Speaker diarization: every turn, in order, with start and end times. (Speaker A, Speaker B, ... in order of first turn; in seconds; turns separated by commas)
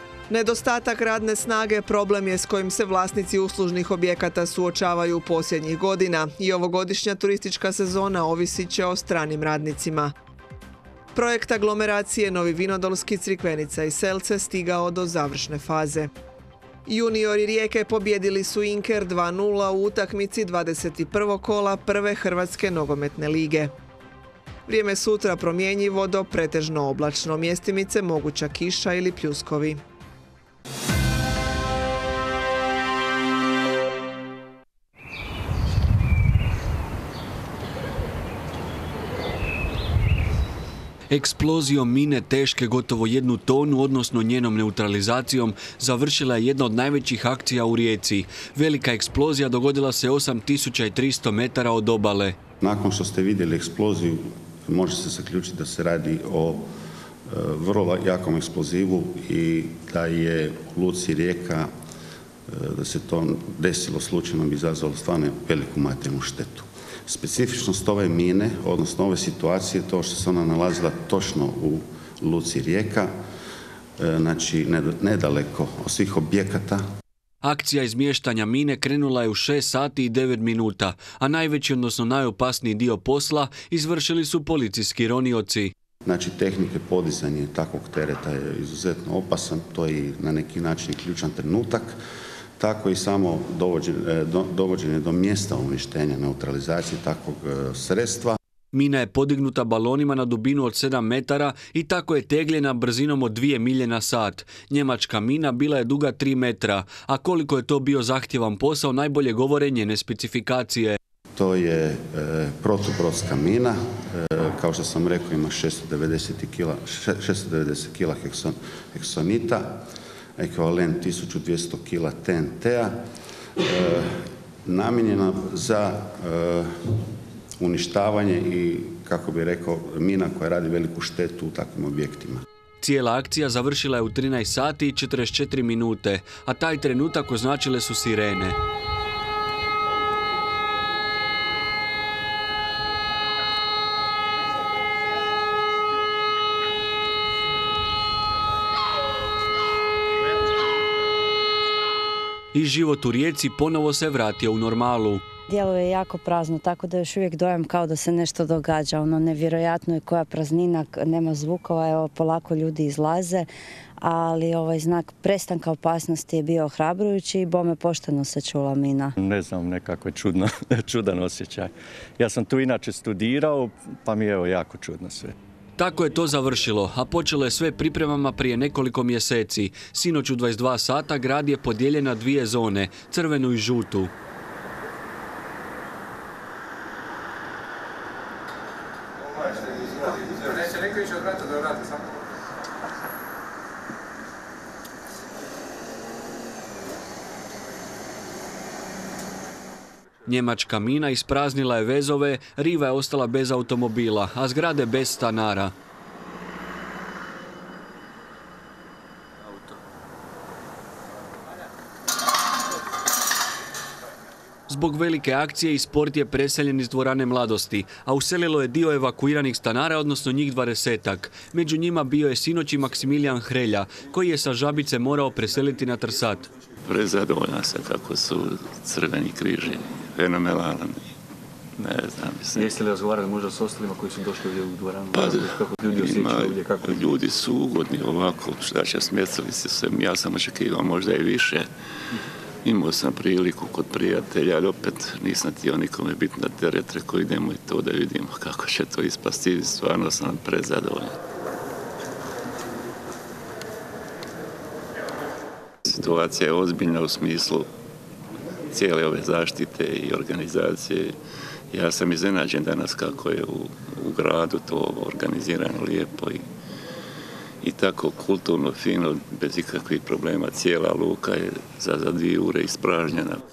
Speaker A: 0.3-10.1, Speaker A: 11.2-16.1, Speaker A: 16.9-23.7, Speaker A: 24.7-29.8, Speaker B: 41.1-52.4, Speaker C: 52.6-56.7, Speaker C: 57.3-61.7, Speaker C: 62.5-73.1, Speaker C: 74.0-76.8, Speaker B: 77.4-85.7, Speaker C: 86.1-92.0, Speaker C: 92.6-98.4, Speaker B: 98.7-111.0, Speaker C: 111.4-119.8, Speaker C: 120.4-123.0, Speaker C: 123.6-124.1, Speaker C: 124.7-126.7, Speaker C: 127.6-132.4, Speaker B: 132.8-138.6, Speaker B: 152.5-155.2, Speaker D: 158.3-158.7, Speaker E: 161.3-163.4, Speaker E: 164.5-165.5, Speaker D: 165.2-165.4, Speaker E: 166.0-166.3, Speaker E: 166.8-167.4, Speaker D: 168.0-168.3, Speaker E: 168.4-169.0, Speaker D: 169.2-175.3, Speaker B: 175.8-184.1, Speaker B: 200.3-205.7, Speaker B: 214.7-226.5, Speaker F: 226.9-231.0, Speaker F: 231.8-232.8, Speaker G: 232.6-237.0, Speaker F: 235.1-241.7, Speaker D: 236.2-236.6, Speaker F: 242.7-251.2, Speaker F: 255.9-257.7, Speaker F: 258.7-261.1, Speaker F: 261.7-266.4, Speaker F: 267.6-273.4